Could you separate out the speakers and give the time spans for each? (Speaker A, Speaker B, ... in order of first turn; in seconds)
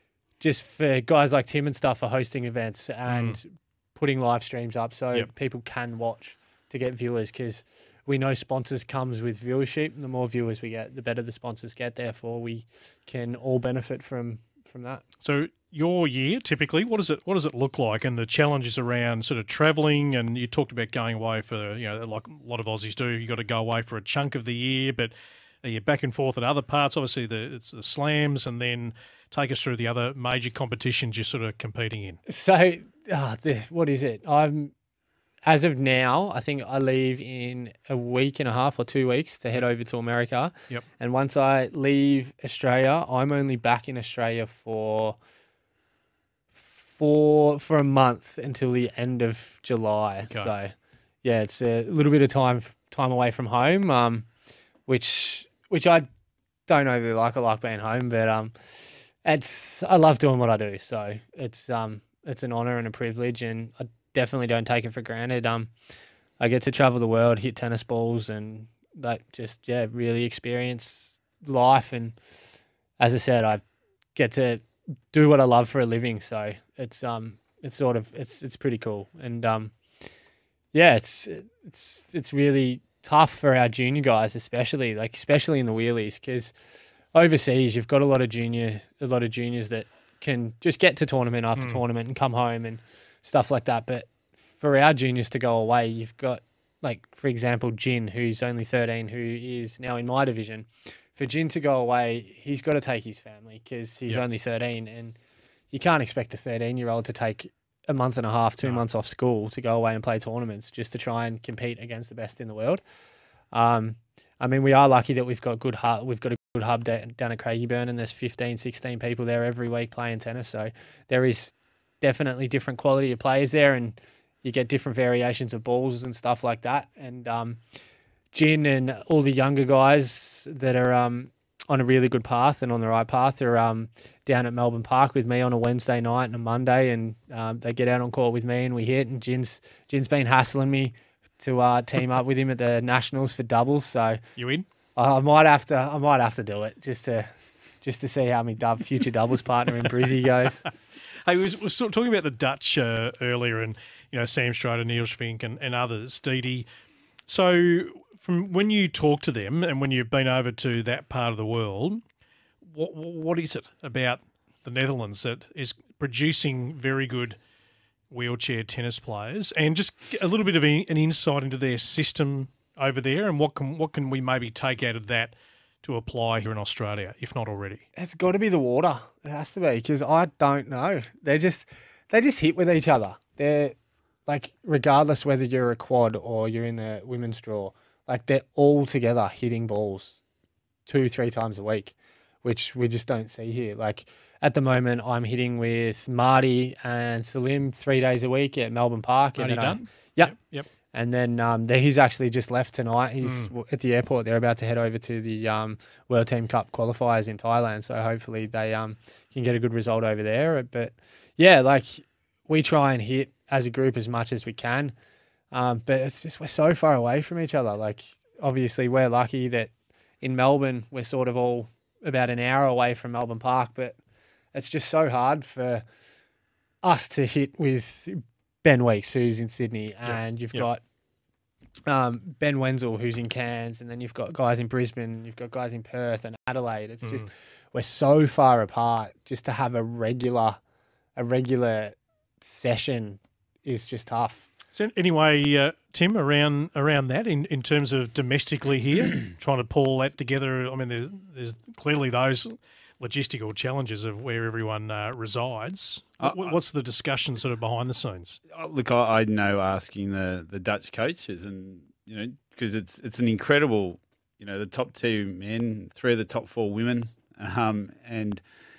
Speaker A: 0.4-15.0, 32.3-34.7, 35.5-45.2, 46.9-50.7, 51.2-54.3, 54.9-56.1, 56.7-65.7, 66.4-72.2, 73.0-73.6, 74.2-79.7, 80.7-86.5, 87.1-105.2, 105.7-112.8, 113.5-127.6, 128.3-144.2, 145.0-147.3, 147.8-150.7, 177.9-183.8, 184.3-190.2, 190.9-200.3, 200.9-214.9, 215.5-224.0, 224.5-225.8, 226.8-230.8, 231.9-240.6, 241.2-244.5
Speaker B: 3.1-3.4, 15.2-32.2, 144.4-144.7, 151.2-156.7, 157.3-162.0, 162.7-167.4, 168.1-177.8, 199.4-200.7, 203.2-203.5, 230.1-230.7, 244.7-258.4
Speaker C: 258.5-268.4